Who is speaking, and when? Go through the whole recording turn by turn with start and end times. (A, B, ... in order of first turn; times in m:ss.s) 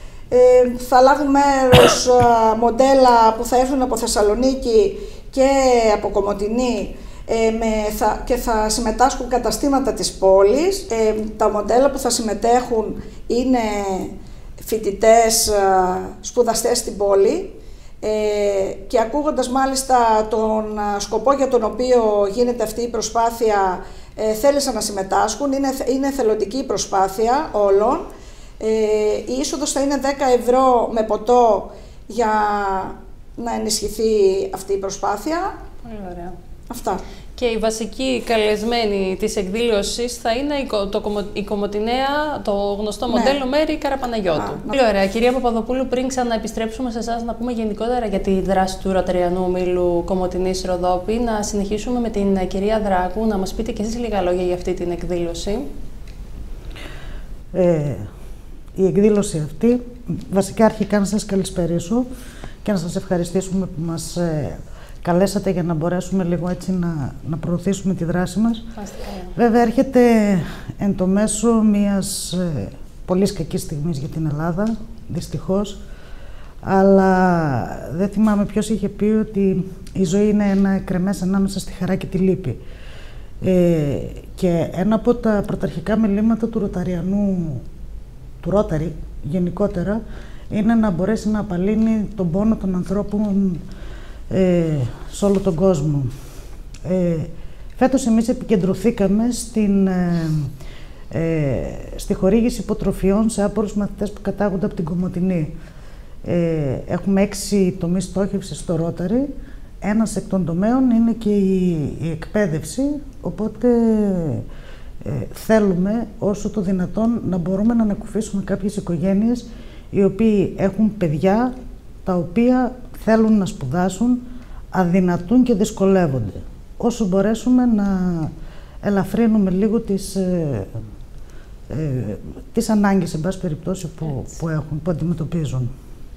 0:00.3-0:28.1 A
0:28.6-0:35.5 A
0:35.8-0:36.4 B
0:36.7-0:37.0 A
0:37.4-0:55.7 B
0:43.1-0:43.4 A
0:44.4-0:44.7 A
0:57.5-0:58.1 C
0:58.8-1:02.1 C
1:02.6-1:08.7 C
1:08.8-1:09.3 B
1:09.4-1:15.8 C
1:16.6-1:22.6 C
1:23.4-1:27.6 C
1:28.4-1:33.6 C
1:34.3-1:36.1 C
1:36.8-1:40.5 C
1:41.1-1:45.5 C
1:46.2-1:49.3 C
1:49.8-1:54.5 C
1:55.0-2:01.5 C
2:02.0-2:04.2 C
2:04.7-2:08.3 C
2:08.8-2:10.8 C
2:11.7-2:15.7 C